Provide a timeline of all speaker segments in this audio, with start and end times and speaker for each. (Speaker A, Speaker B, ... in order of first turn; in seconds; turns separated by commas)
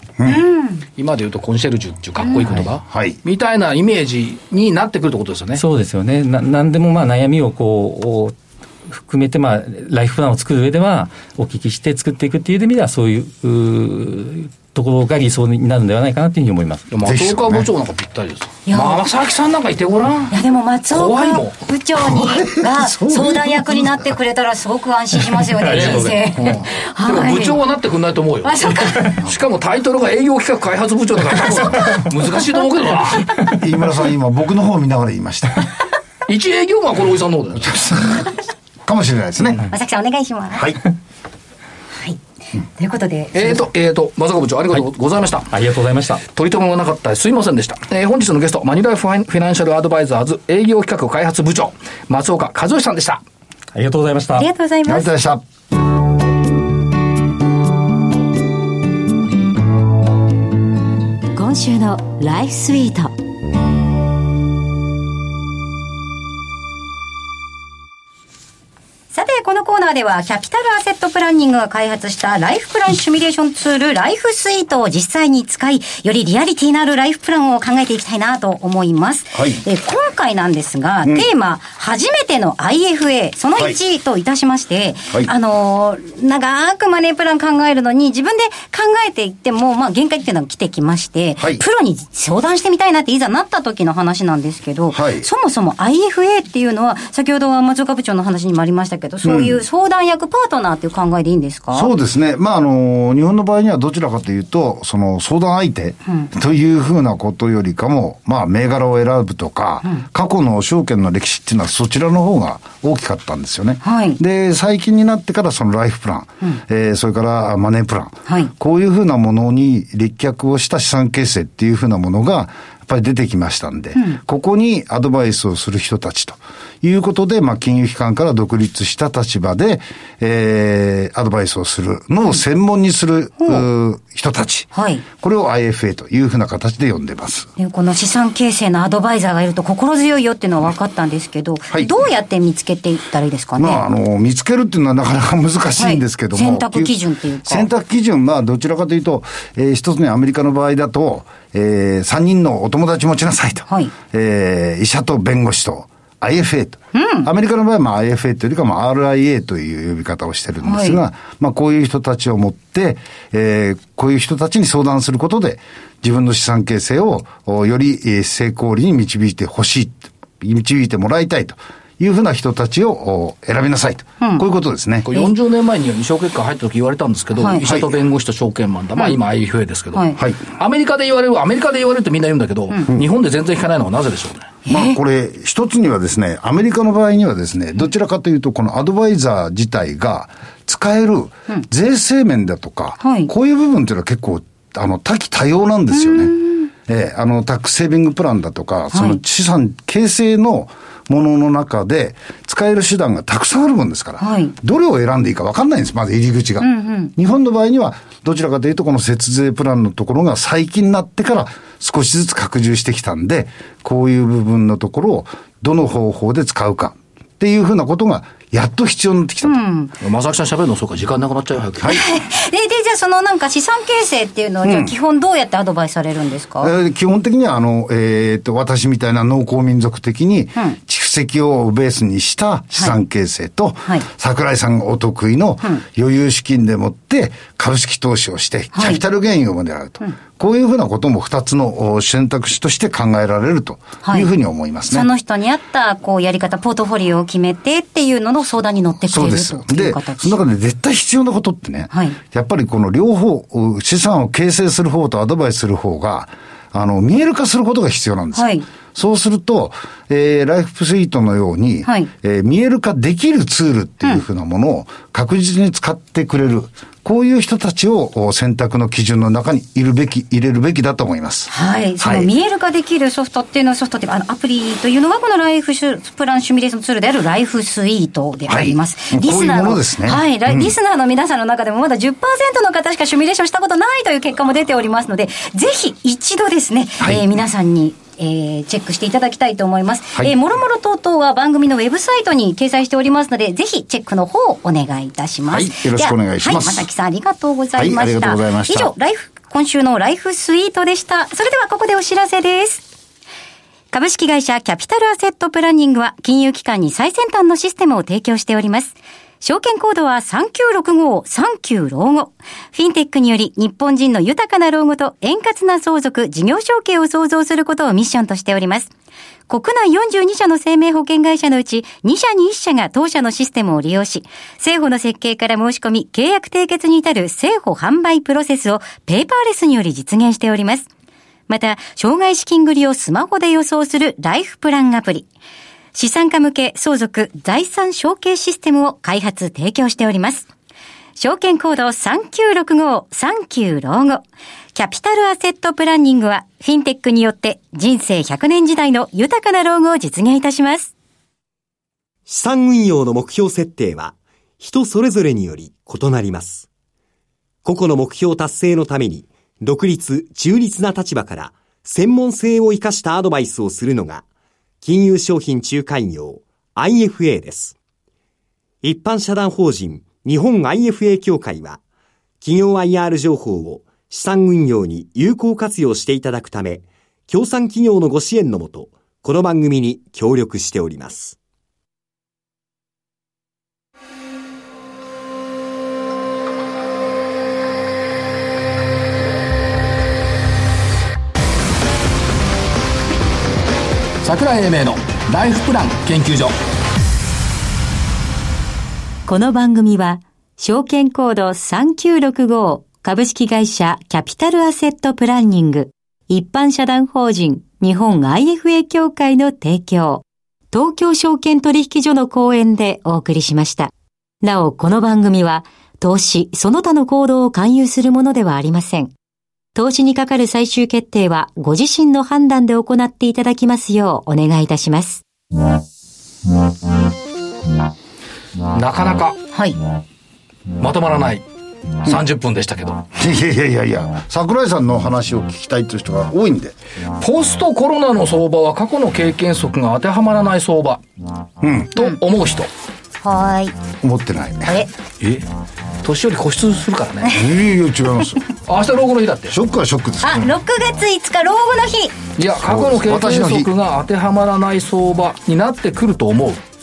Speaker A: 0.2-0.4, Speaker B: 0.3-0.8, Speaker C: 1.0-5.6, Speaker A: 2.9-3.2, Speaker D: 5.5-8.3, Speaker D: 8.9-16.9, Speaker C: 16.9-20.4, Speaker A: 17.0-17.7, Speaker B: 18.7-19.0, Speaker B: 20.3-27.6, Speaker C: 20.9-21.6, Speaker A: 22.0-24.1, Speaker D: 25.6-26.1, Speaker C: 25.6-33.5, Speaker A: 26.4-26.6, Speaker B: 28.4-29.2, Speaker A: 33.5-35.7, Speaker C: 36.3-37.7, Speaker A: 37.6-39.6, Speaker B: 39.7-40.7, Speaker A: 40.5-40.8, Speaker B: 42.8-43.6, Speaker C: 43.3-45.5, Speaker D: 45.5-46.2, Speaker C: 46.2-53.2, Speaker D: 53.7-54.5, Speaker B: 54.4-55.1, Speaker A: 54.8-55.4, Speaker B: 61.3-63.1, Speaker B: 69.1-101.9, Speaker A: 79.3-79.6, Speaker A: 91.4-91.6, Speaker A: 94.9-95.3, Speaker A: 99.2-99.6, Speaker A: 101.7-137.5, Speaker B: 113.8-114.2, Speaker B: 134.7-135.0, Speaker B: 137.6-143.8, Speaker A: 143.6-175.1, Speaker B: 145.8-147.7, Speaker B: 156.9-157.3, Speaker B: 160.6-161.0, Speaker C: 175.0-184.5, Speaker B: 177.4-177.6, Speaker A: 177.6-178.0, Speaker B: 179.9-180.2, Speaker B: 184.7-185.0, Speaker A: 184.7-196.3, Speaker B: 193.0-193.3, Speaker B: 195.9-196.7, Speaker A: 196.9-219.6, Speaker B: 198.9-199.2, Speaker B: 204.2-204.5, Speaker B: 206.6-207.1, Speaker B: 219.4-219.9, Speaker C: 220.0-222.0, Speaker B: 221.8-226.7, Speaker A: 224.6-224.9, Speaker A: 226.6-245.1, Speaker B: 238.7-239.0, Speaker B: 244.9-250.3, Speaker A: 249.1-272.3, Speaker B: 251.9-252.2, Speaker B: 258.3-258.7, Speaker B: 271.5-302.9, Speaker A: 278.5-280.7, Speaker A: 287.0-287.4, Speaker A: 295.5-296.9, Speaker A: 297.8-298.9, Speaker B: 303.9-318.9, Speaker B: 319.5-330.9, Speaker B: 331.5-335.3, Speaker B: 335.9-340.5, Speaker B: 341.2-344.2, Speaker B: 344.7-350.9, Speaker E: 352.2-356.7, Speaker E: 357.6-364.2, Speaker E: 364.8-367.8, Speaker E: 368.8-371.8, Speaker E: 372.4-381.4, Speaker C: 394.2-396.6, Speaker B: 399.2-413.9, Speaker B: 414.4-419.1, Speaker B: 419.7-425.2, Speaker C: 428.7-429.4, Speaker B: 429.5-429.8, Speaker C: 430.8-431.4, Speaker C: 432.0-433.0, Speaker A: 433.1-436.8, Speaker C: 437.2-441.0, Speaker A: 441.6-441.9, Speaker C: 441.9-442.7, Speaker B: 443.2-443.8, Speaker A: 444.0-444.8, Speaker C: 445.2-445.5, Speaker C: 446.0-447.4, Speaker A: 447.3-448.4, Speaker C: 448.6-449.6, Speaker A: 449.5-450.5, Speaker B: 450.2-452.2, Speaker C: 452.4-456.6, Speaker A: 452.6-453.7